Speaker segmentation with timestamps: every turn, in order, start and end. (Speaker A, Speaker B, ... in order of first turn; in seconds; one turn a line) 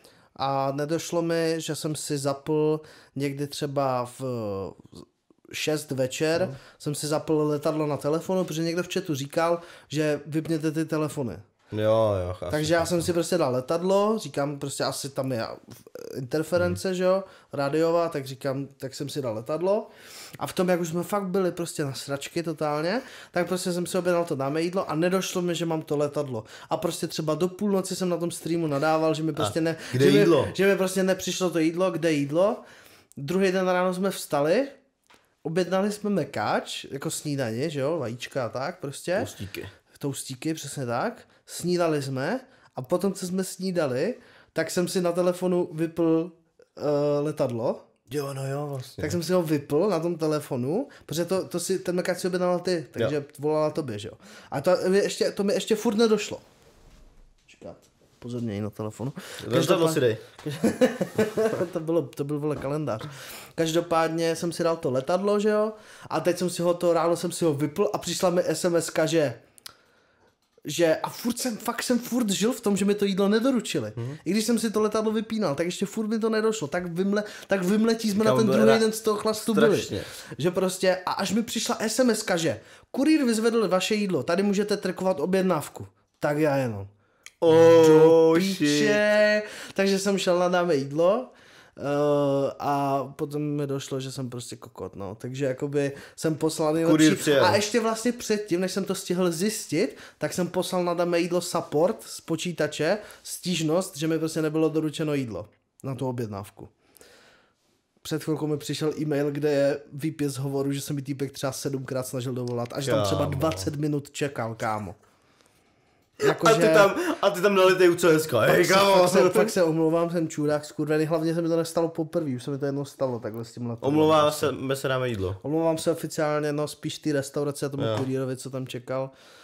Speaker A: 0.4-11.4
Speaker B: 11.7-13.1
Speaker A: 12.5-19.9
Speaker A: 20.4-32.6
Speaker B: 29.4-30.5
Speaker A: 33.2-34.8
Speaker A: 35.4-39.3
Speaker B: 39.2-39.7
Speaker A: 39.9-47.9
Speaker B: 48.1-49.2
Speaker A: 49.0-56.4
Speaker A: 57.5-69.4
Speaker B: 59.4-60.2
Speaker A: 70.7-86.9
Speaker B: 78.2-78.8
Speaker B: 79.4-80.1
Speaker B: 87.4-89.0
Speaker A: 87.5-106.7
Speaker B: 96.8-97.6
Speaker A: 108.0-115.0
Speaker B: 112.8-113.7
Speaker A: 116.2-116.9
Speaker B: 116.2-119.5
Speaker A: 118.5-124.5
Speaker B: 123.8-125.4
Speaker A: 125.4-129.1
Speaker B: 127.8-128.1